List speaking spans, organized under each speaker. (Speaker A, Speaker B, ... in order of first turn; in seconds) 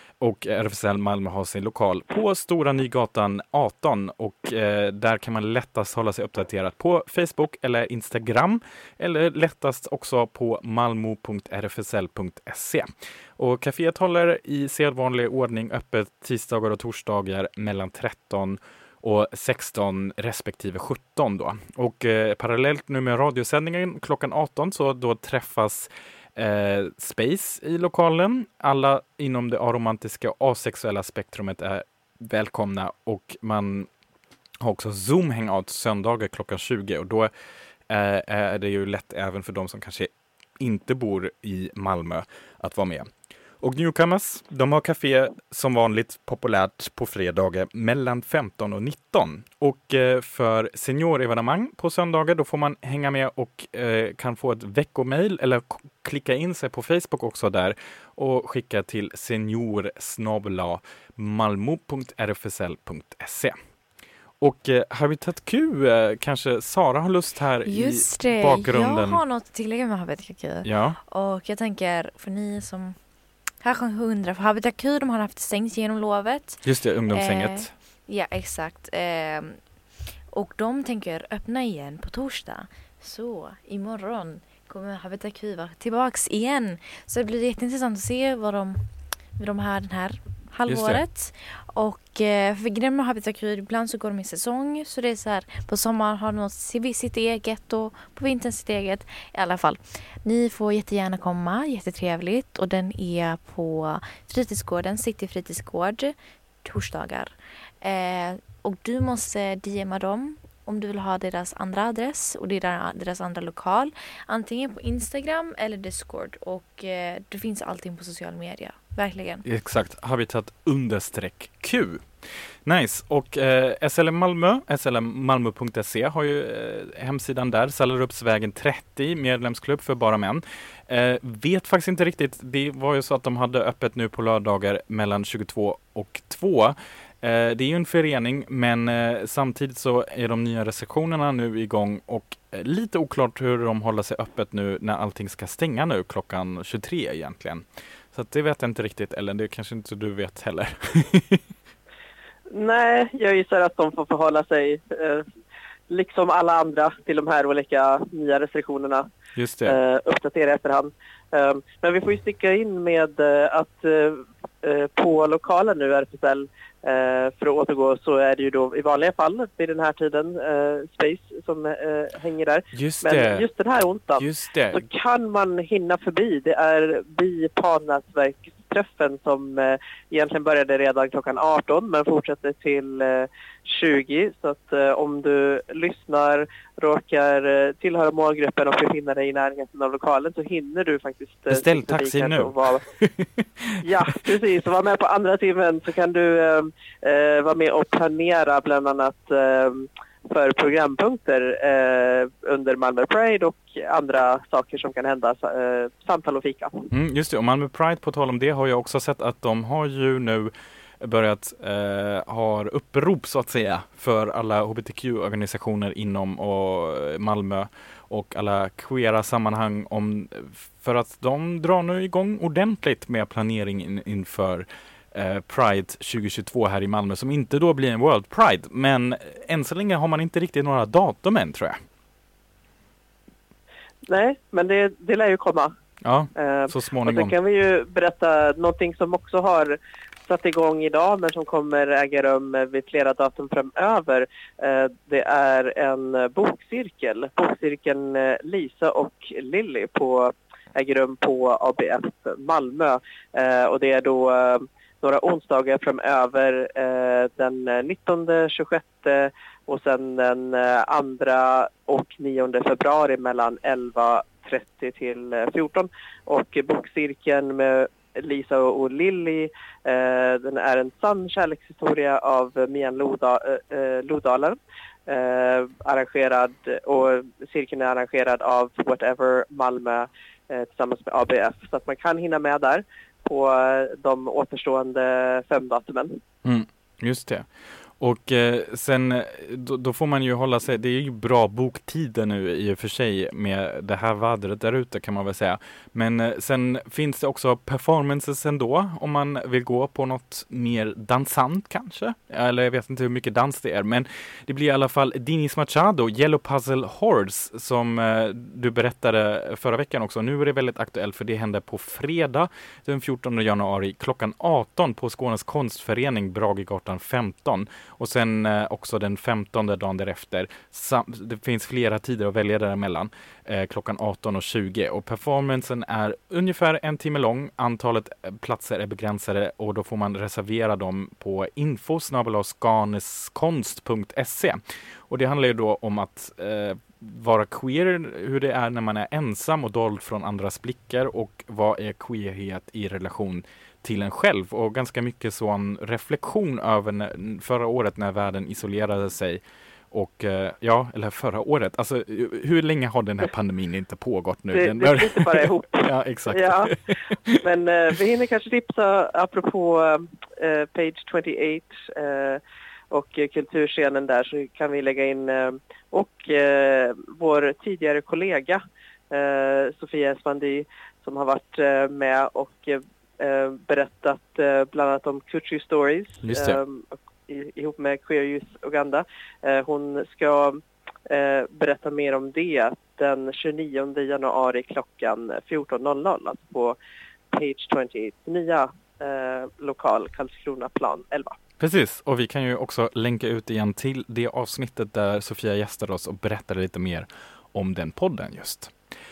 Speaker A: 0.2-33.9, 34.6-37.3, 37.9-43.1, 43.6-63.5, 64.4-69.2, 70.6-71.0, 76.6-77.7, 90.7-91.0, 119.5-122.1, 122.7-151.4, 159.3-159.8, 172.7-173.5, 174.2-174.8, 191.5-193.8, 206.9-231.8, 236.0-237.3, 286.4-287.5, 288.0-357.4, 376.2-376.6, 391.6-398.7
Speaker B: 67.7-73.0, 73.6-79.6, 80.3-88.8, 89.4-119.5
Speaker C: 152.5-155.3, 155.9-159.1, 159.7-192.8, 193.8-206.8, 234.1-235.7, 236.4-286.2, 354.5-356.8, 357.4-386.8, 387.3-391.4